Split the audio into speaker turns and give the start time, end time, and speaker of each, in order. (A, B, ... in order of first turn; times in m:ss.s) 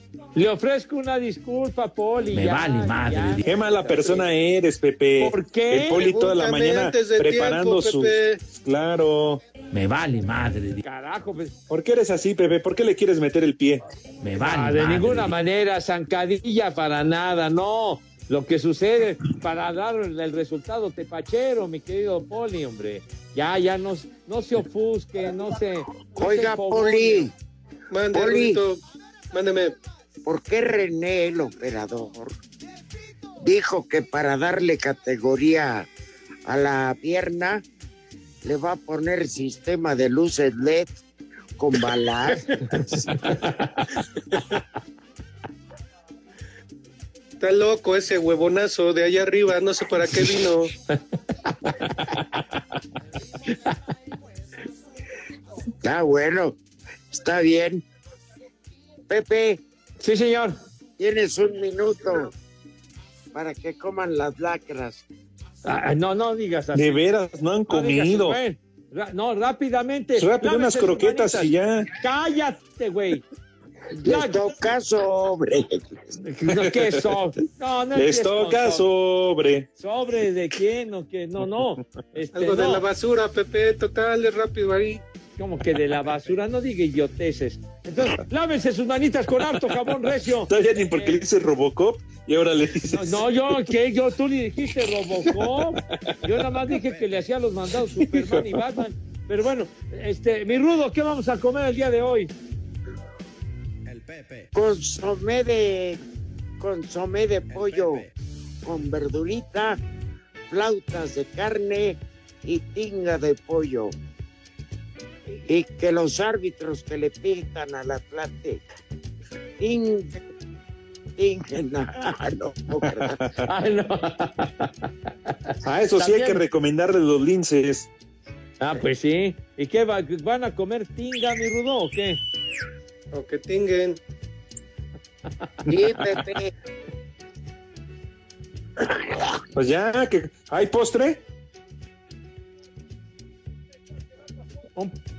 0:00.4-0:04.3 A
0:02.3-0:03.4 B
0:03.4-0:09.4 C
0:05.2-0:06.0 A
0:05.9-0:08.4 D
0:09.7-0:10.8 B
0:10.8-0:11.5 A
0:11.7-0:13.8 C
0:14.2-0:15.3 B
0:14.4-0:27.3 A
0:26.2-0:27.3 E
0:27.9-0:28.8 D
0:28.1-0:28.6 E
0:29.3-0:29.7 D
0:30.2-0:32.4 E
0:33.4-0:35.9 E
0:36.4-0:37.6 E
0:38.4-0:41.0 E
0:41.6-0:42.5 E
0:47.4-0:50.7 D
0:55.8-0:56.6 E
0:57.1-0:57.8 E
0:59.1-0:59.6 E
1:00.0-1:00.6 A
1:01.0-1:02.3 E
1:03.3-1:05.0 E
1:05.6-1:07.0 A
1:06.7-1:08.4 C
1:07.7-1:13.2 A
1:10.2-1:11.9 C
1:14.0-1:15.9 E
1:14.0-1:14.4 A
1:16.2-1:18.8 A
1:18.0-1:19.7 C
1:19.8-1:22.8 A
1:22.3-1:25.0 D
1:25.4-1:31.2 A
1:30.5-1:33.2 C
1:32.9-1:42.3 A
1:38.0-1:38.6 C
1:44.5-1:46.0 E
1:46.6-1:48.0 E
1:48.6-1:49.8 E
1:50.5-1:53.9 E
1:55.5-1:58.6 E
1:59.6-2:00.2 E
2:01.2-2:03.2 E
2:02.9-2:03.3 C
2:03.5-2:04.7 A
2:05.5-2:06.4 A
2:05.6-2:07.9 C
2:08.6-2:12.2 A
2:13.1-2:14.0 D
2:15.7-2:16.5 E
2:19.5-2:21.2 C